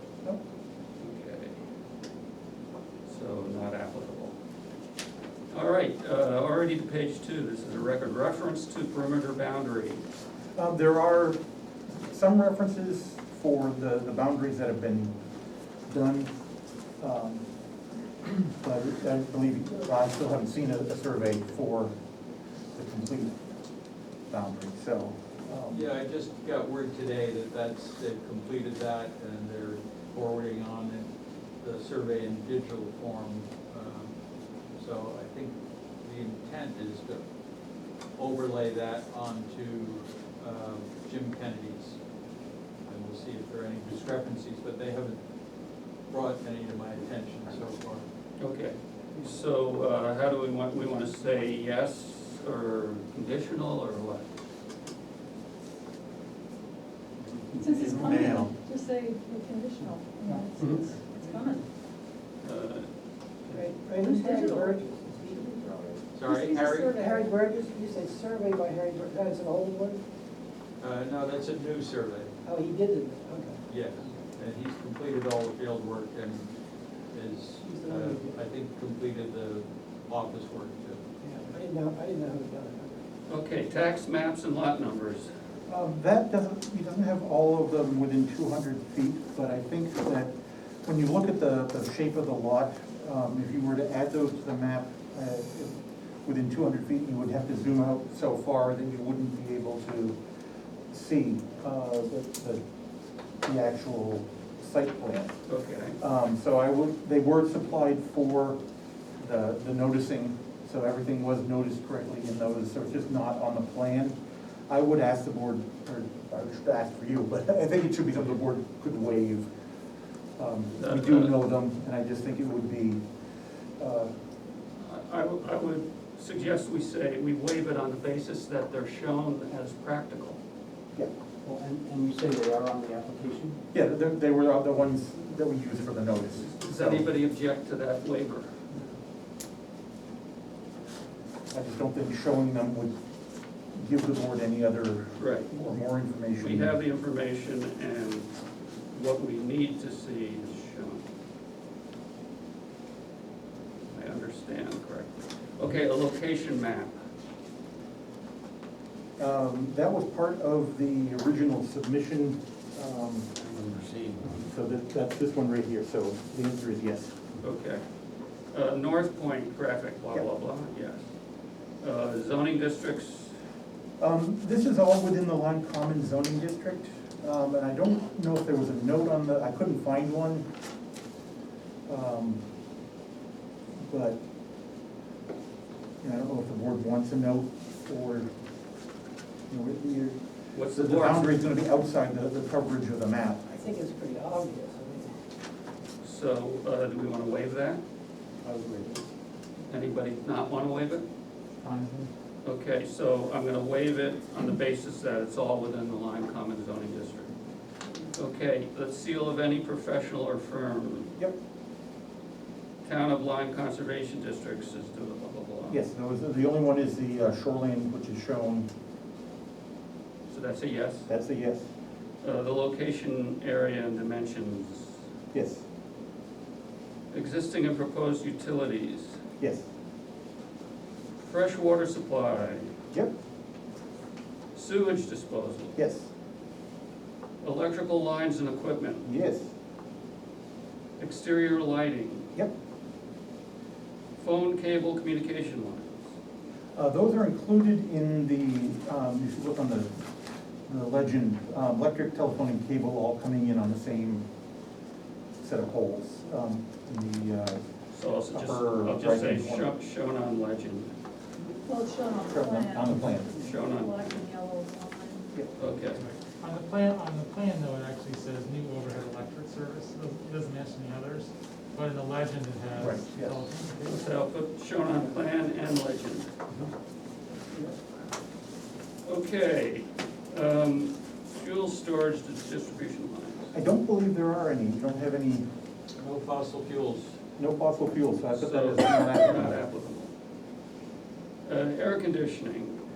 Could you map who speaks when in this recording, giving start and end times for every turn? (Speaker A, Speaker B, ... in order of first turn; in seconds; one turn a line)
Speaker A: 1.0-1.6
Speaker A: 3.0-4.3
Speaker A: 5.5-10.1
Speaker B: 10.6-11.4
Speaker B: 12.0-15.2
Speaker B: 15.9-16.3
Speaker B: 17.0-17.4
Speaker B: 18.2-21.9
Speaker B: 22.8-23.4
Speaker B: 24.3-25.8
Speaker C: 25.7-31.1
Speaker C: 31.6-34.1
Speaker C: 34.8-37.2
Speaker C: 38.2-42.0
Speaker C: 42.9-45.2
Speaker C: 46.1-48.0
Speaker A: 48.4-54.3
Speaker B: 57.5-58.5
Speaker D: 57.5-61.6
Speaker A: 62.4-62.9
Speaker E: 63.5-70.0
Speaker D: 64.0-65.7
Speaker C: 66.1-67.0
Speaker D: 66.3-67.3
Speaker C: 70.8-72.3
Speaker E: 72.4-73.6
Speaker C: 73.7-76.5
Speaker C: 77.1-81.0
Speaker E: 77.6-78.4
Speaker E: 81.2-83.0
Speaker A: 83.3-85.3
Speaker B: 85.7-100.2
Speaker B: 100.9-102.6
Speaker B: 103.4-105.4
Speaker A: 105.5-106.0
Speaker B: 106.0-108.6
Speaker B: 109.2-114.2
Speaker B: 114.7-119.5
Speaker B: 120.4-123.0
Speaker A: 120.8-121.3
Speaker B: 123.8-124.1
Speaker A: 124.8-130.4
Speaker F: 131.5-133.6
Speaker B: 133.7-137.1
Speaker A: 136.6-138.6
Speaker B: 141.5-143.0
Speaker B: 143.7-146.8
Speaker A: 145.2-145.5
Speaker A: 146.4-148.3
Speaker A: 148.9-151.1
Speaker A: 153.9-156.9
Speaker B: 159.2-163.3
Speaker B: 164.4-167.2
Speaker A: 167.4-167.8
Speaker A: 168.5-171.1
Speaker A: 171.8-173.3
Speaker B: 174.0-180.5
Speaker B: 181.9-182.4
Speaker B: 183.8-184.2
Speaker B: 186.0-188.3
Speaker B: 189.5-190.2
Speaker A: 190.5-191.4
Speaker B: 190.7-193.5
Speaker E: 193.5-195.2
Speaker A: 196.0-197.8
Speaker B: 198.4-199.0
Speaker A: 199.7-201.1
Speaker G: 201.6-202.1
Speaker A: 202.4-207.3
Speaker A: 208.1-211.1
Speaker A: 212.8-215.8
Speaker B: 215.7-218.7
Speaker A: 220.3-221.1
Speaker B: 221.1-221.7
Speaker A: 222.2-225.0
Speaker B: 225.3-225.6
Speaker A: 227.1-229.2
Speaker B: 229.4-229.7
Speaker A: 231.2-232.7
Speaker A: 234.5-235.8
Speaker B: 235.8-236.1
Speaker A: 237.4-239.1
Speaker B: 239.0-239.5
Speaker A: 241.0-242.3
Speaker A: 244.2-246.0
Speaker B: 246.8-250.0
Speaker B: 250.7-254.2
Speaker B: 255.4-257.6
Speaker A: 257.9-260.9
Speaker B: 258.3-259.7
Speaker D: 261.6-265.2
Speaker B: 262.3-263.5
Speaker A: 263.4-264.2
Speaker B: 265.3-266.1
Speaker A: 265.6-266.0
Speaker G: 266.0-274.1
Speaker B: 272.8-273.4
Speaker A: 273.9-276.3
Speaker A: 279.0-283.5
Speaker B: 283.5-285.5
Speaker C: 286.0-287.1
Speaker B: 287.4-289.6
Speaker A: 288.3-290.1
Speaker A: 291.4-292.8